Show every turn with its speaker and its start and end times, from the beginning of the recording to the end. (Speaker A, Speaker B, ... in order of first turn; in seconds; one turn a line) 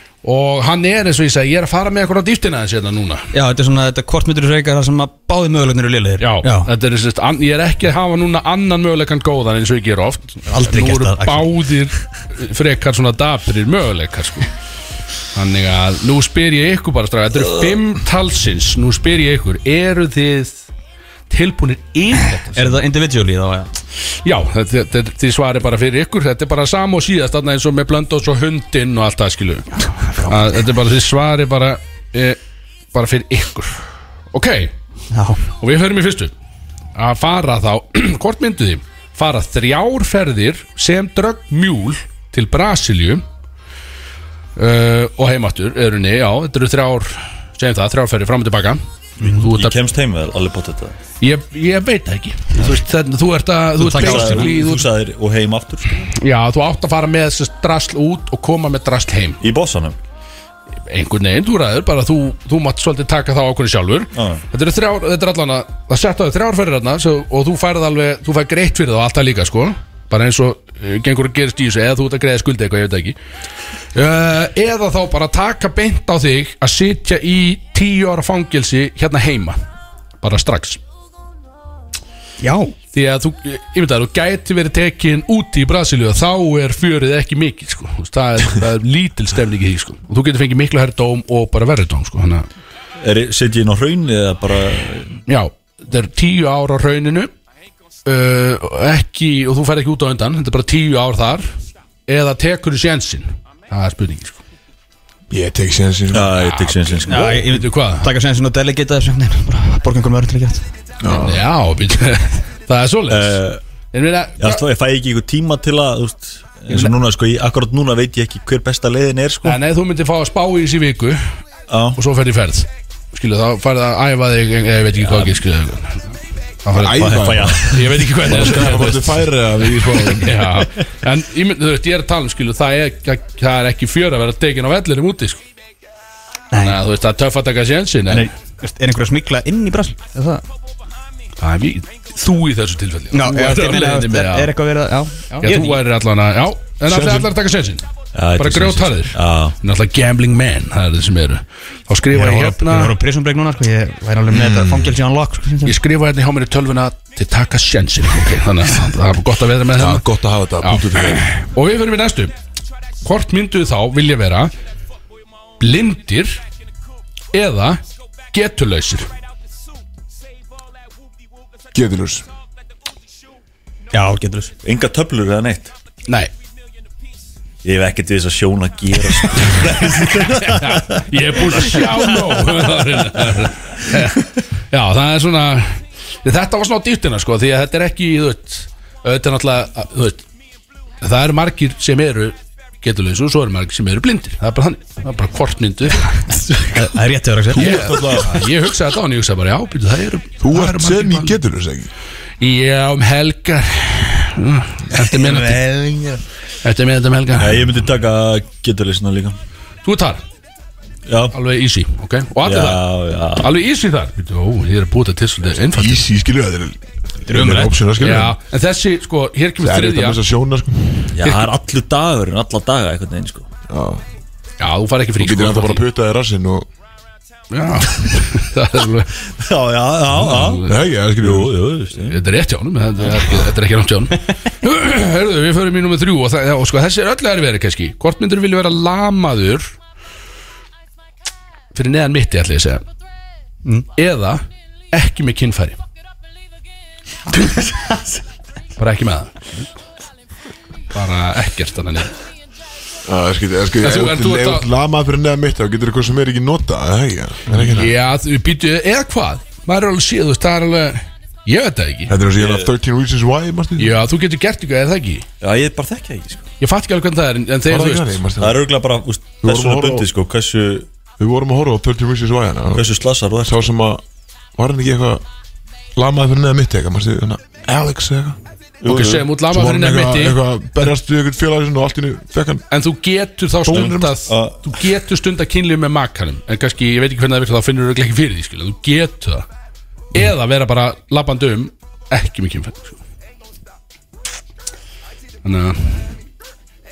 Speaker A: 0.2-3.3
Speaker B: 3.3-6.7
Speaker A: 6.2-14.5
Speaker B: 10.5-11.7
Speaker A: 15.3-20.6
Speaker A: 21.3-22.8
Speaker B: 22.6-23.7
Speaker A: 24.2-32.4
Speaker B: 29.9-30.3
Speaker A: 32.9-33.8
Speaker A: 34.3-34.7
Speaker B: 35.1-35.4
Speaker A: 35.5-36.3
Speaker A: 37.0-43.2
Speaker A: 44.6-48.8
Speaker B: 49.2-49.5
Speaker C: 49.2-51.0
Speaker A: 49.4-49.7
Speaker A: 51.2-54.9
Speaker B: 53.8-54.5
Speaker C: 53.8-56.1
Speaker A: 56.1-59.4
Speaker C: 59.4-60.0
Speaker A: 60.9-73.2
Speaker C: 64.2-64.4
Speaker A: 74.0-79.6
Speaker A: 80.2-80.8
Speaker B: 82.4-82.7
Speaker A: 82.9-92.5
Speaker C: 93.0-95.2
Speaker A: 95.3-97.3
Speaker A: 98.0-101.5
Speaker A: 102.1-104.4
Speaker D: 105.3-106.8
Speaker C: 106.1-107.6
Speaker A: 106.4-108.1
Speaker B: 107.1-110.7
Speaker D: 111.0-111.5
Speaker A: 111.2-113.4
Speaker C: 113.1-113.6
Speaker A: 113.9-114.6
Speaker C: 114.4-119.6
Speaker A: 119.4-121.3
Speaker C: 121.7-122.0
Speaker A: 122.0-126.1
Speaker C: 125.0-125.4
Speaker A: 126.6-135.4
Speaker D: 126.7-130.5
Speaker C: 126.9-128.7
Speaker B: 136.5-136.8
Speaker A: 136.6-138.3
Speaker B: 138.6-140.4
Speaker A: 141.4-144.5
Speaker B: 143.1-145.8
Speaker A: 145.4-147.8
Speaker D: 146.9-147.3
Speaker C: 148.2-149.6
Speaker A: 148.4-152.9
Speaker B: 152.1-155.8
Speaker D: 154.3-155.0
Speaker A: 155.7-160.1
Speaker D: 159.8-161.3
Speaker A: 160.6-162.3
Speaker A: 163.0-164.5
Speaker A: 165.6-166.4
Speaker A: 167.3-167.8
Speaker A: 168.3-169.1
Speaker D: 171.7-172.2
Speaker B: 173.9-174.5
Speaker C: 174.6-175.7
Speaker C: 177.6-181.0
Speaker A: 179.3-190.2
Speaker A: 191.0-196.5
Speaker B: 196.6-197.8
Speaker D: 197.5-198.4
Speaker A: 197.5-201.4
Speaker D: 200.4-201.9
Speaker A: 202.4-205.6
Speaker C: 204.9-206.2
Speaker A: 206.6-207.8
Speaker C: 207.4-209.4
Speaker A: 209.8-210.2
Speaker C: 211.1-211.3
Speaker A: 211.3-216.1
Speaker C: 212.4-213.5
Speaker D: 215.6-218.4
Speaker B: 217.3-217.8
Speaker A: 218.0-220.2
Speaker D: 219.6-221.2
Speaker C: 221.2-223.5
Speaker A: 221.2-221.5
Speaker D: 223.7-224.0
Speaker A: 224.6-225.8
Speaker D: 225.2-226.7
Speaker A: 227.5-229.1
Speaker C: 229.4-232.2
Speaker A: 230.1-230.8
Speaker D: 230.6-231.6
Speaker A: 232.0-239.7
Speaker A: 241.7-242.8
Speaker A: 244.0-245.8
Speaker A: 248.8-249.7
Speaker A: 250.9-252.1
Speaker D: 253.1-257.9
Speaker A: 253.8-254.7
Speaker A: 257.5-262.1
Speaker D: 262.1-264.0
Speaker C: 262.4-262.7
Speaker A: 263.8-265.3
Speaker C: 265.4-266.4
Speaker A: 266.6-268.2
Speaker D: 267.7-268.7
Speaker C: 268.4-270.9
Speaker D: 269.4-270.1
Speaker D: 271.2-272.9
Speaker C: 272.8-273.6
Speaker D: 273.4-274.0
Speaker D: 274.6-275.2
Speaker D: 276.0-278.4
Speaker C: 278.8-279.3
Speaker A: 278.9-280.4
Speaker D: 279.4-282.6
Speaker A: 282.7-289.4
Speaker D: 283.6-284.2
Speaker C: 284.3-284.6
Speaker A: 290.1-293.0
Speaker A: 295.4-296.1